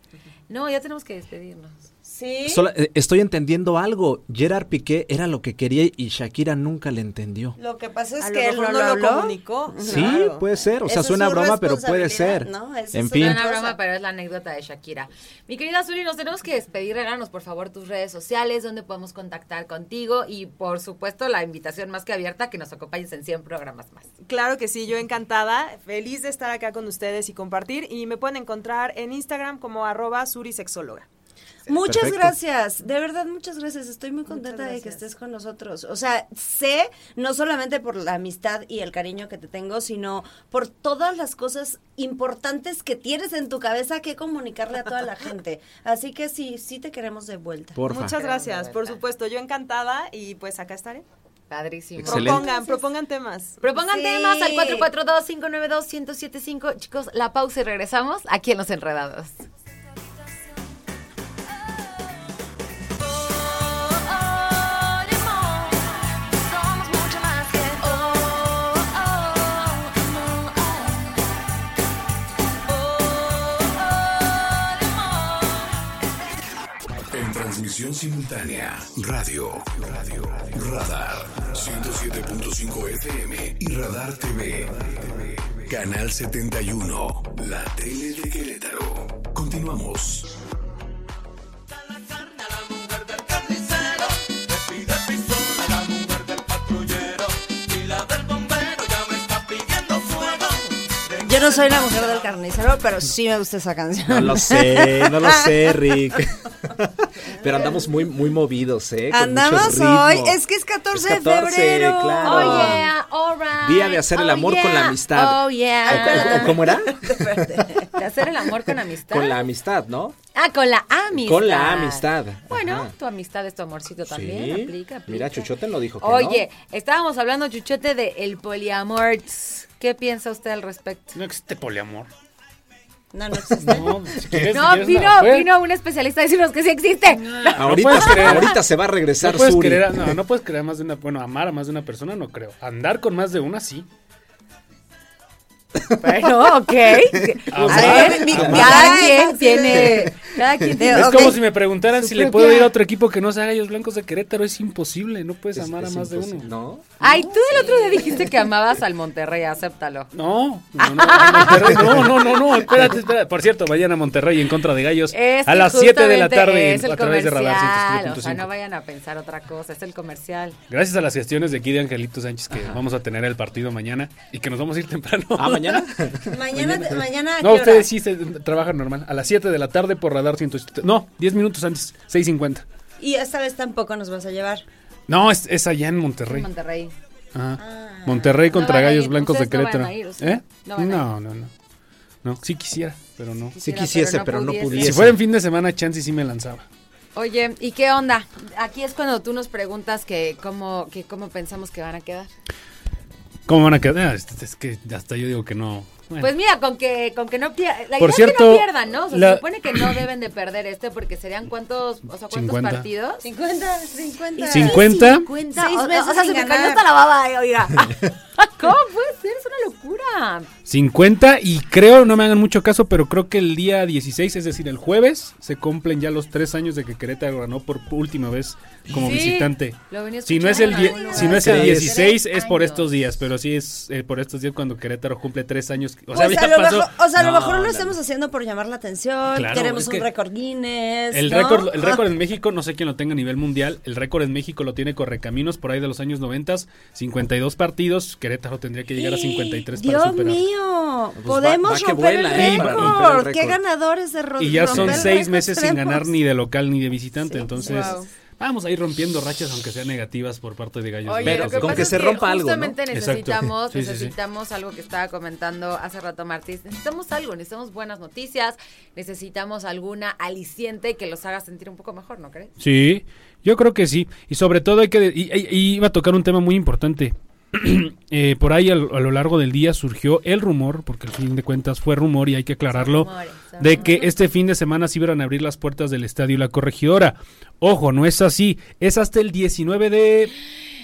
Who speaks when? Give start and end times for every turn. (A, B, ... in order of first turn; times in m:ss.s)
0:00.5-0:01.8 A
0:02.0-0:02.6 B
0:02.5-0:07.6 C
0:07.6-0:10.2 B
0:08.2-0:10.4 D
0:09.8-0:13.4 C
0:10.8-0:13.8 B
0:13.1-0:24.1 A
0:24.2-0:31.1 D
0:31.7-0:47.8 B
0:31.8-0:32.4 C
0:34.3-0:35.0 D
0:47.7-0:48.1 C
0:47.9-0:51.0 D
0:48.1-0:49.0 A
0:51.5-0:52.5 A
0:52.0-0:52.5 C
0:52.0-0:53.6 D
0:52.2-0:52.8 B
0:53.6-0:59.3 A
0:53.7-0:54.9 B
1:17.1-1:30.3 E
1:35.8-1:37.1 E
1:37.9-1:38.8 E
1:41.2-1:45.9 B
1:44.1-1:50.4 C
1:47.3-1:47.9 B
1:49.1-1:52.8 B
1:50.9-1:52.9 C
1:52.2-1:56.6 A
1:53.6-1:57.6 C
1:55.8-1:58.0 B
1:57.8-1:59.5 A
1:59.1-2:00.2 C
2:00.3-2:05.5 A
2:01.1-2:02.9 C
2:04.1-2:06.4 C
2:06.0-2:11.2 A
2:11.1-2:12.1 F
2:13.1-2:14.0 B
2:13.5-2:14.5 C
2:13.6-2:15.5 F
2:14.5-2:18.5 A
2:17.2-2:18.6 F
2:17.6-2:20.1 C
2:19.2-2:23.9 F
2:25.9-2:29.0 C
2:26.0-2:31.3 A
2:27.5-2:29.0 F
2:27.6-2:31.4 B
2:29.7-2:30.7 C
2:30.9-2:36.5 F
2:32.0-2:32.7 A
2:35.5-2:37.7 C
2:37.0-2:40.1 A
2:37.5-2:38.0 B
2:40.1-2:48.5 F
2:40.8-2:42.1 A
2:45.1-2:50.6 A
2:50.7-2:55.8 F
2:52.5-2:52.8 C
2:55.4-2:57.1 C
2:56.2-2:57.9 B
2:57.4-3:02.6 F
3:03.0-3:04.6 B
3:05.1-3:06.5 F
3:06.3-3:06.9 A
3:07.3-3:11.5 F
3:07.6-3:08.4 B
3:08.5-3:11.0 A
3:12.2-3:13.5 F
3:13.5-3:15.1 A
3:13.6-3:15.2 C
3:14.7-3:16.6 F
3:17.2-3:22.3 A
3:23.5-3:26.3 F
3:26.2-3:33.2 A
3:28.0-3:29.9 F
3:32.3-3:32.9 F
3:33.2-3:34.8 B
3:34.2-3:40.5 A
3:34.5-3:35.3 F
3:35.5-3:36.8 B
3:40.7-3:57.0 F
3:48.9-3:52.9 A
3:50.5-3:52.1 B
3:51.3-3:52.0 C
3:56.1-4:02.0 B
3:57.1-3:58.0 C
3:59.3-4:00.0 F
4:01.1-4:10.4 F
4:08.9-4:16.1 B
4:11.2-4:13.6 C
4:12.3-4:13.0 F
4:14.4-4:22.1 F
4:14.7-4:15.1 C
4:17.3-4:17.9 B
4:17.6-4:18.1 A
4:21.0-4:32.5 A
4:21.2-4:22.8 C
4:22.9-4:24.1 F
4:32.6-4:50.3 F
4:42.7-4:44.0 A